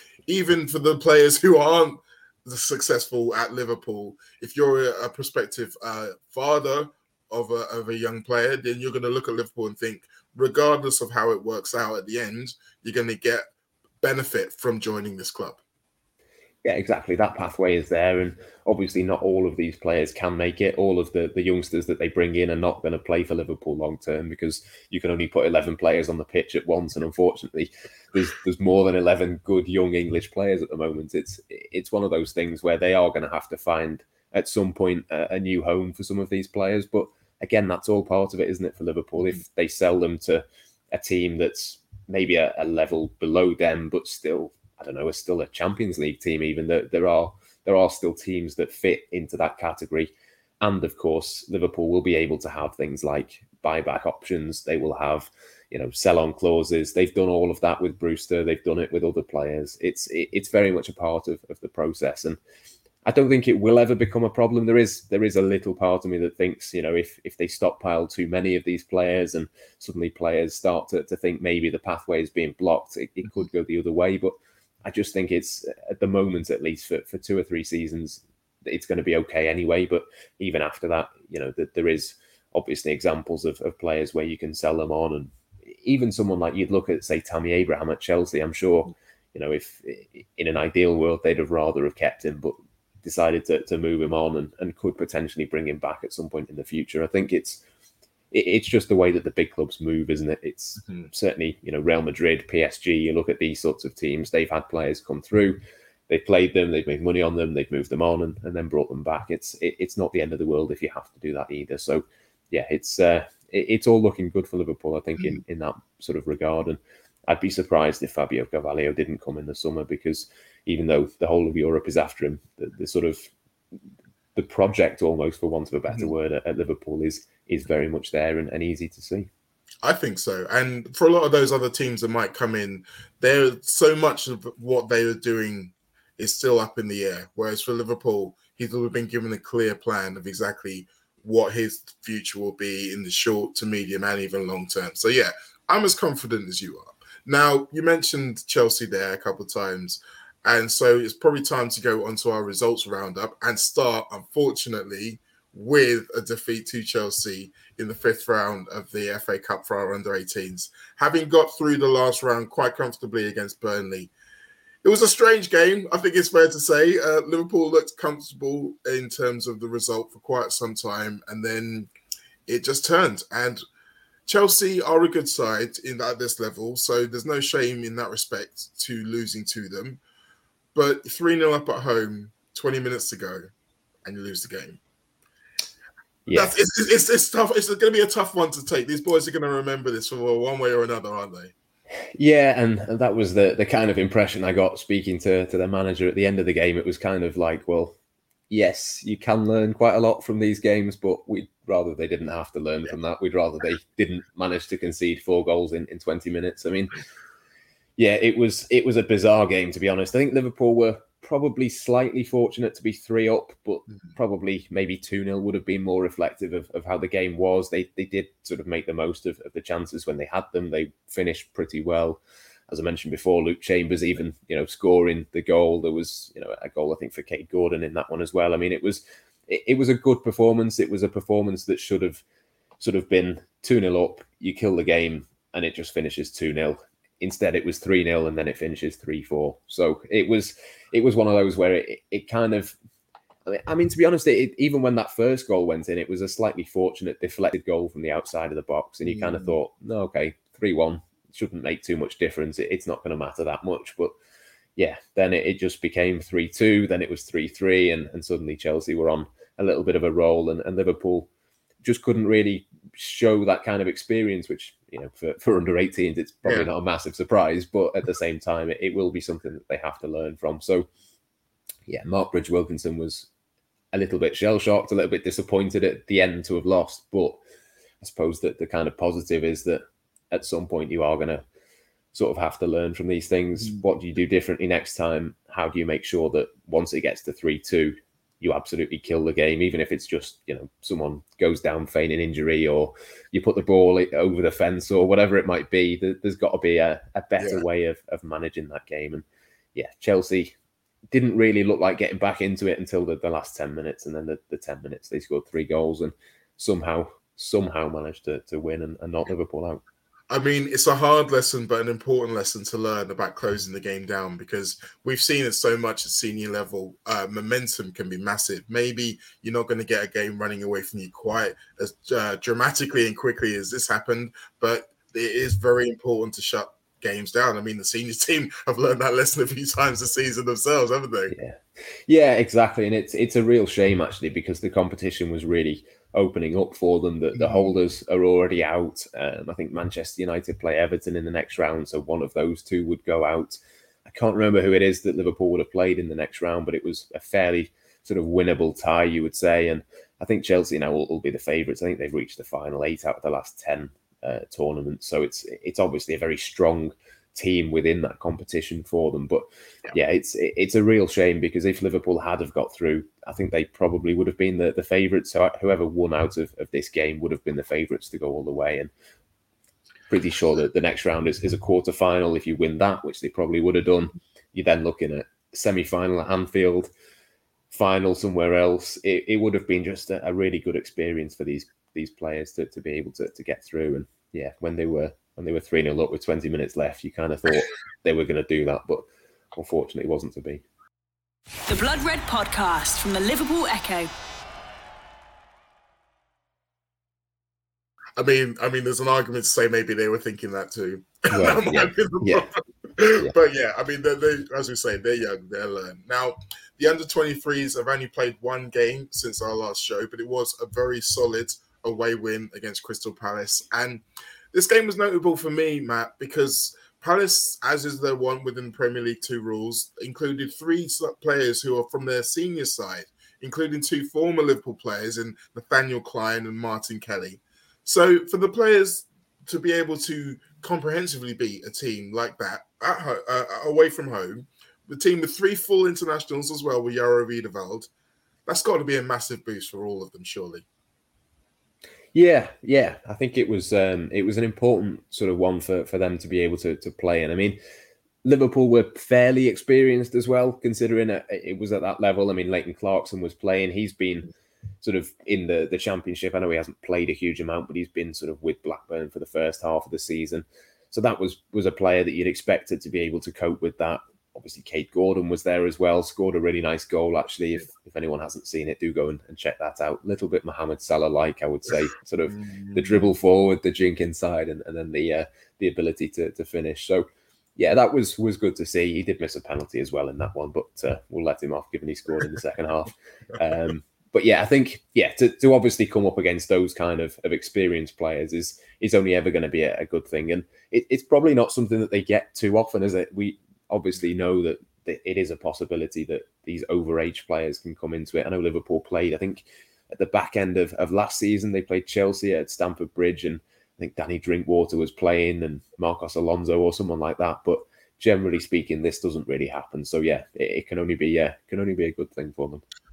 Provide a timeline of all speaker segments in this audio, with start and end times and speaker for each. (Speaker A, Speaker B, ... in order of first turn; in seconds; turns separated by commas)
Speaker A: 0.3-13.5, Speaker A: 14.0-15.6, Speaker B: 16.6-62.4, Speaker B: 63.0-74.3, Speaker B: 74.8-97.6, Speaker B: 98.3-123.3, Speaker B: 124.3-129.3, Speaker A: 129.8-164.1, Speaker A: 164.8-171.9, Speaker A: 172.5-173.6, Speaker A: 174.3-180.0, Speaker A: 180.7-183.5, Speaker A: 184.0-184.8, Speaker B: 186.2-186.5, Speaker A: 186.3-191.5, Speaker B: 192.2-198.0, Speaker B: 198.5-207.0, Speaker B: 208.0-232.2, Speaker B: 232.8-242.7, Speaker B: 243.5-254.1, Speaker A: 249.1-249.5, Speaker B: 254.8-261.3, Speaker B: 261.8-270.9, Speaker A: 266.4-266.7, Speaker B: 271.9-273.3, Speaker B: 273.9-277.4, Speaker B: 278.0-281.4, Speaker B: 282.1-300.5, Speaker A: 297.4-297.6, Speaker B: 301.1-309.8, Speaker A: 310.3-331.3, Speaker B: 331.3-368.9, Speaker A: 337.4-337.7, Speaker B: 370.1-376.9, Speaker B: 377.7-390.6, Speaker C: 391.7-394.1, Speaker A: 398.2-437.9, Speaker B: 401.3-402.5, Speaker A: 438.4-440.6, Speaker B: 442.1-447.6, Speaker B: 448.2-454.3, Speaker B: 454.8-477.1, Speaker A: 472.3-473.1, Speaker B: 477.6-512.6